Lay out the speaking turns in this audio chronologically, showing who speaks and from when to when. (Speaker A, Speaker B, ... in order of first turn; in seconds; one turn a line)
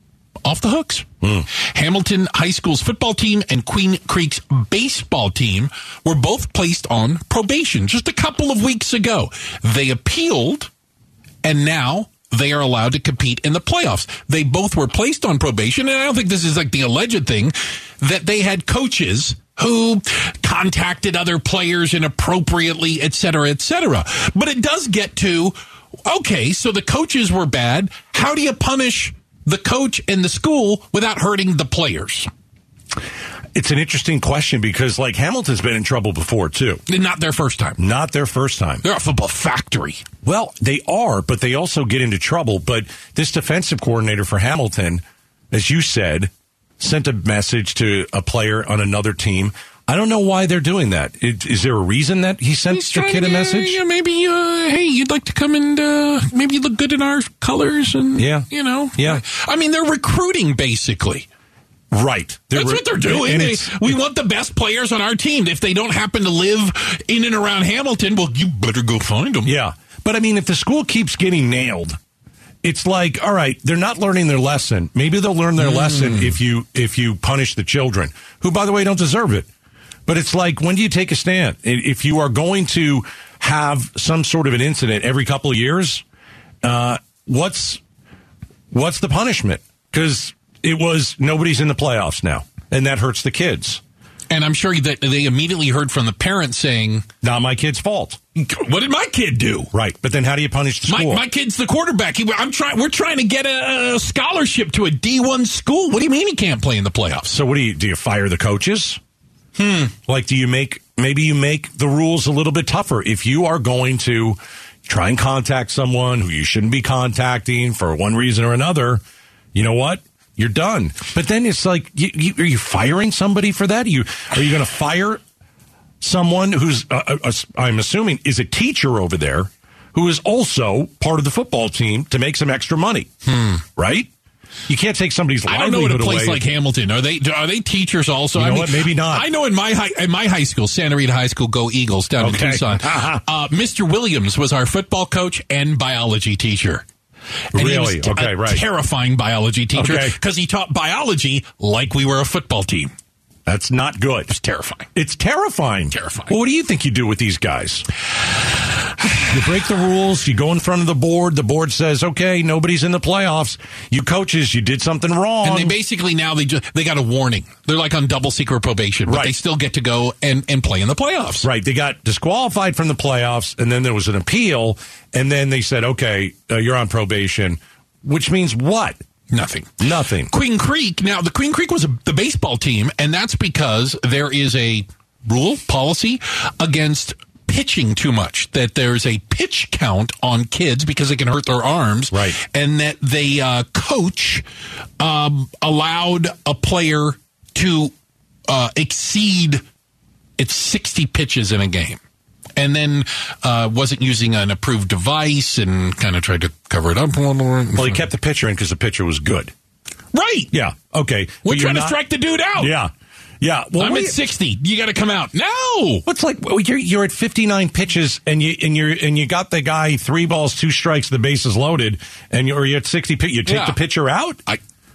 Speaker A: 0.4-1.1
Speaker B: 1.2-1.5
Speaker A: 1.7-10.7
Speaker A: 11.4-25.5
Speaker A: 26.0-32.3
Speaker B: 33.5-36.8
Speaker A: 36.9-37.8
Speaker B: 37.8-38.8
Speaker A: 38.8-40.0
Speaker B: 40.2-53.8
Speaker A: 52.7-61.3
Speaker B: 58.1-59.2
Speaker B: 61.9-64.0
Speaker A: 62.5-69.6
Speaker B: 69.4-72.0
Speaker B: 72.6-79.5
Speaker A: 75.6-76.3
Speaker B: 80.1-86.0
Speaker B: 86.6-87.8
Speaker B: 88.7-93.8
Speaker A: 94.3-97.0
Speaker B: 97.2-98.2
Speaker A: 98.3-99.7
Speaker B: 99.7-101.2
Speaker A: 100.8-107.3
Speaker B: 107.3-109.0
Speaker A: 109.6-109.9
Speaker B: 110.0-119.0
Speaker B: 119.5-125.2
Speaker B: 126.0-133.1
Speaker A: 133.2-133.6
Speaker B: 133.8-134.1
Speaker B: 134.7-136.4
Speaker A: 135.4-146.8
Speaker B: 138.3-139.3
Speaker B: 142.2-143.2
Speaker A: 147.5-152.9
Speaker B: 147.5-148.6
Speaker B: 149.7-150.2
Speaker B: 153.4-154.3
Speaker A: 154.3-154.9
Speaker B: 154.9-157.8
Speaker A: 155.9-156.3
Speaker A: 159.0-159.3
Speaker B: 159.3-165.7
Speaker A: 165.4-171.5
Speaker B: 169.1-169.3
Speaker B: 171.4-179.0
Speaker A: 179.3-194.4
Speaker B: 179.8-180.3
Speaker B: 192.1-192.4
Speaker A: 195.0-197.9
Speaker A: 198.5-199.6
Speaker A: 200.4-202.0
Speaker A: 202.6-208.0
Speaker B: 207.7-209.5
Speaker A: 210.1-210.5
Speaker B: 210.5-212.0
Speaker A: 211.4-212.8
Speaker B: 212.6-214.2
Speaker A: 213.8-216.0
Speaker B: 216.1-224.4
Speaker A: 223.4-223.8